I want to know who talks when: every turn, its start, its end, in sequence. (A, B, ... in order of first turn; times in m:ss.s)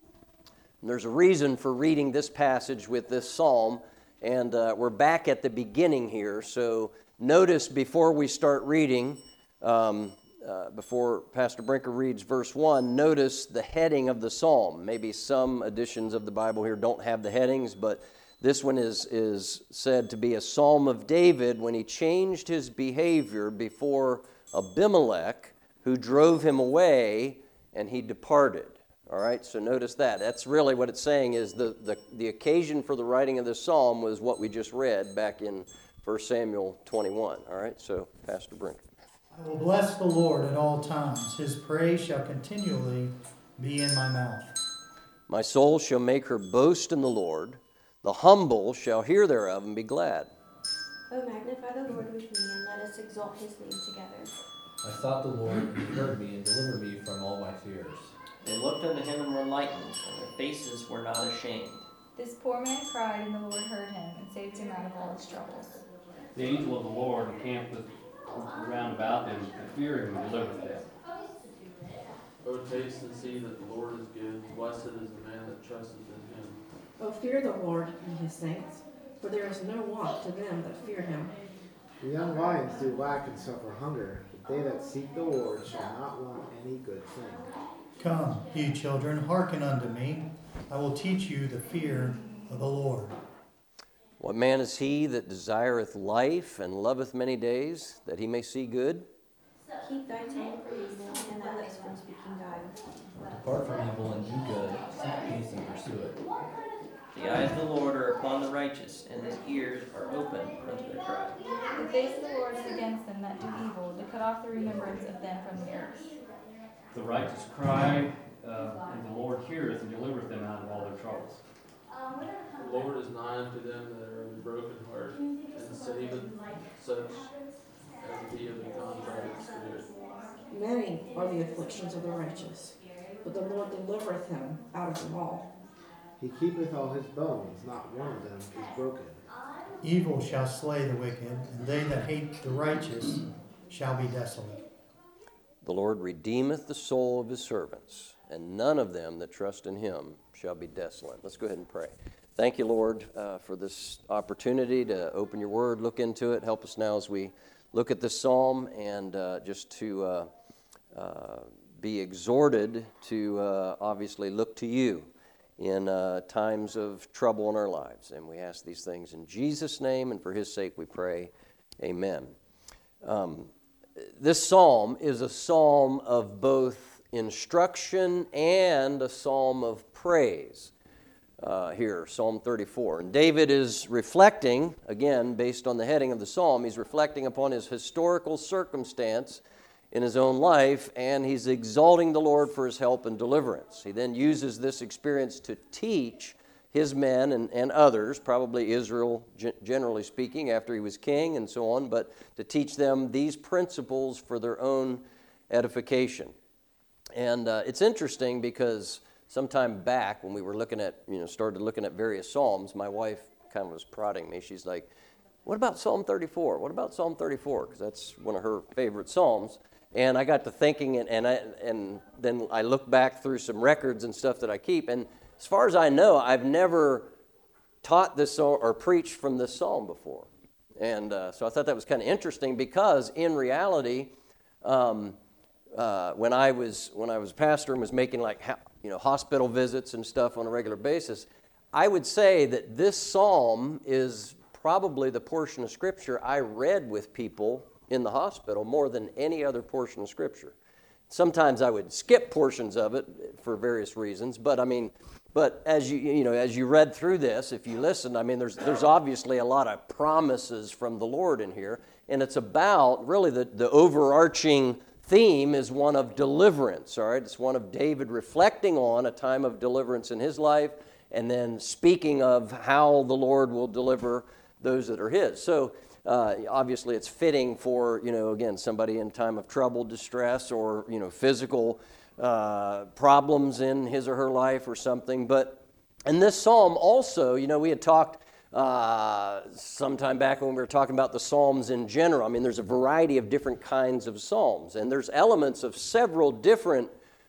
0:00.8-0:38.8 A
0:39.3-0:44.6 B
0:45.3-0:50.3 A
0:51.1-0:54.3 C
0:54.8-0:58.1 D
0:58.4-1:01.9 E
1:02.2-1:05.8 F
1:06.4-1:10.9 G
1:12.4-1:16.6 H
1:17.0-1:21.3 I
1:22.0-1:27.5 J
1:28.0-1:33.2 B
1:34.2-1:39.1 A
1:39.8-1:42.8 C
1:43.3-1:46.2 D
1:47.1-1:51.4 E
1:51.8-1:56.1 F
1:56.9-2:01.4 G
2:02.6-2:07.3 H
2:08.0-2:10.0 H
2:10.5-2:15.5 I
2:16.2-2:19.2 J
2:19.8-2:24.6 B
2:25.6-2:40.3 A
2:40.9-2:52.3 A
2:53.0-2:53.5 A
2:54.2-3:00.7 A
3:01.4-3:26.3 A
3:27.2-3:34.9 A
3:35.5-3:47.1 A
3:47.8-3:54.1 A
3:54.6-3:55.2 A
3:55.8-4:10.6 A
4:11.1-4:56.9 A